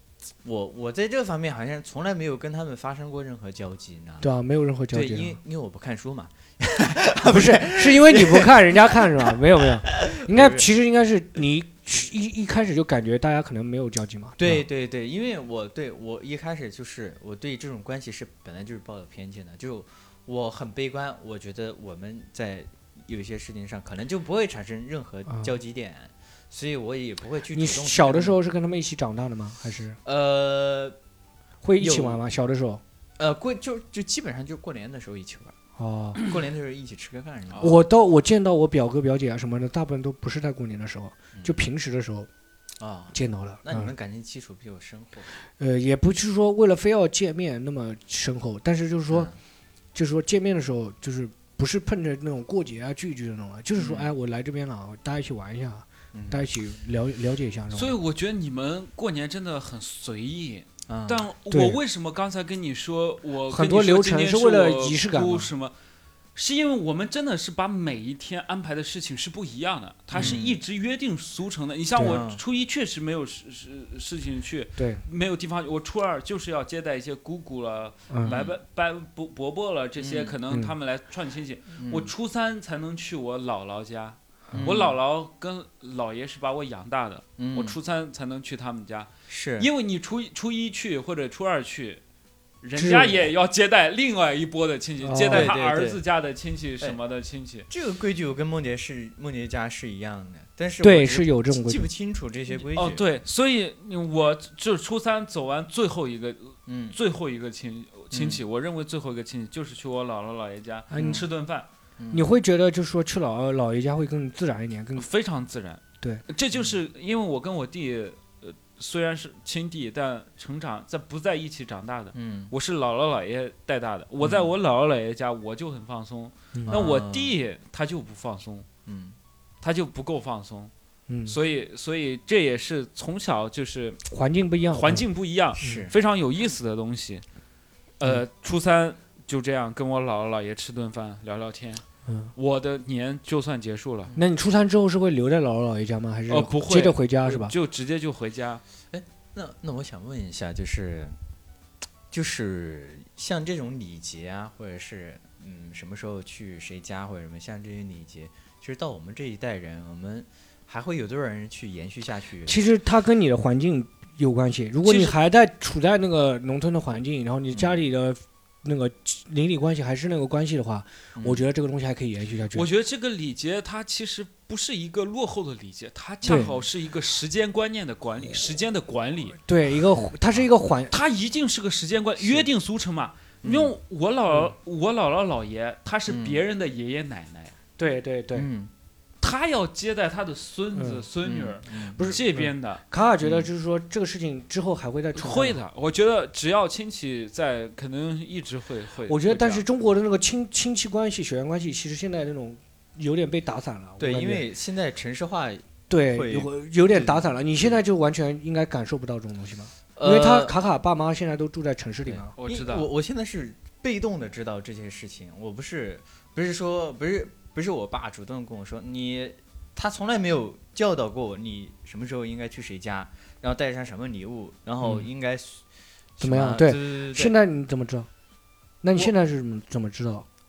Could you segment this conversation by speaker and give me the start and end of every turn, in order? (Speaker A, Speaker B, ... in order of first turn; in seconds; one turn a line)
Speaker A: 0.4-4.3
Speaker B: 4.2-5.4
Speaker A: 4.9-9.3
Speaker B: 7.2-14.6
Speaker A: 9.9-10.7
Speaker A: 14.4-28.4
Speaker B: 27.5-30.0
Speaker A: 30.0-30.9
Speaker B: 31.6-32.8
Speaker A: 31.8-32.2
Speaker A: 33.2-35.5
Speaker B: 35.8-36.2
Speaker A: 36.2-37.8
Speaker B: 37.6-42.3
Speaker A: 41.3-41.6
Speaker A: 42.8-45.3
Speaker B: 43.1-43.9
Speaker B: 45.6-49.3
Speaker A: 49.1-49.4
Speaker B: 49.9-58.0
Speaker A: 53.8-54.1
Speaker A: 56.1-56.5
Speaker C: 57.7-65.7
Speaker A: 60.9-61.2
Speaker B: 61.5-61.8
Speaker B: 63.5-65.5
Speaker C: 66.3-92.0
Speaker A: 70.1-70.6
Speaker B: 72.0-72.2
Speaker A: 72.0-72.4
Speaker B: 74.8-75.0
Speaker B: 78.1-78.4
Speaker A: 78.2-78.5
Speaker A: 80.0-80.3
Speaker A: 81.8-82.1
Speaker A: 84.5-84.9
Speaker A: 87.4-87.8
Speaker A: 89.3-89.7
Speaker C: 92.6-97.7
Speaker B: 92.8-93.3
Speaker B: 95.0-95.5
Speaker A: 95.3-96.0
Speaker A: 97.7-103.2
Speaker B: 100.8-101.9
Speaker C: 102.7-111.7
Speaker A: 106.7-107.0
Speaker A: 108.1-108.4
Speaker B: 110.9-111.2
Speaker A: 111.0-111.2
Speaker A: 112.0-112.2
Speaker B: 112.1-115.1
Speaker C: 115.0-128.7
Speaker A: 122.1-122.5
Speaker A: 124.2-124.5
Speaker B: 126.5-126.8
Speaker A: 126.7-127.3
Speaker A: 128.8-129.2
Speaker C: 129.6-130.7
Speaker B: 131.1-131.4
Speaker C: 131.3-134.0
Speaker B: 134.1-135.0
Speaker C: 134.7-137.2
Speaker A: 135.6-135.9
Speaker B: 135.6-135.9
Speaker C: 138.0-141.8
Speaker B: 142.1-142.3
Speaker C: 142.3-144.1
Speaker B: 144.2-147.5
Speaker C: 146.3-148.6
Speaker A: 148.9-151.2
Speaker A: 152.1-162.6
Speaker B: 162.4-172.7
Speaker C: 164.8-165.2
Speaker A: 167.5-167.8
Speaker A: 171.2-171.4
Speaker C: 172.5-179.4
Speaker B: 176.2-176.5
Speaker B: 179.5-180.9
Speaker C: 180.9-187.5
Speaker A: 183.4-183.7
Speaker A: 186.1-186.4
Speaker B: 187.8-188.5
Speaker A: 188.3-188.7
Speaker C: 189.2-192.8
Speaker B: 190.7-191.0
Speaker A: 191.2-192.2
Speaker B: 192.0-195.6
Speaker A: 193.2-193.5
Speaker C: 195.1-199.6
Speaker B: 199.1-204.4
Speaker A: 204.0-207.8
Speaker B: 205.9-212.3
Speaker A: 210.0-210.5
Speaker A: 212.1-225.6
Speaker C: 212.4-212.9
Speaker A: 226.2-227.3
Speaker B: 226.2-228.1
Speaker B: 228.8-230.2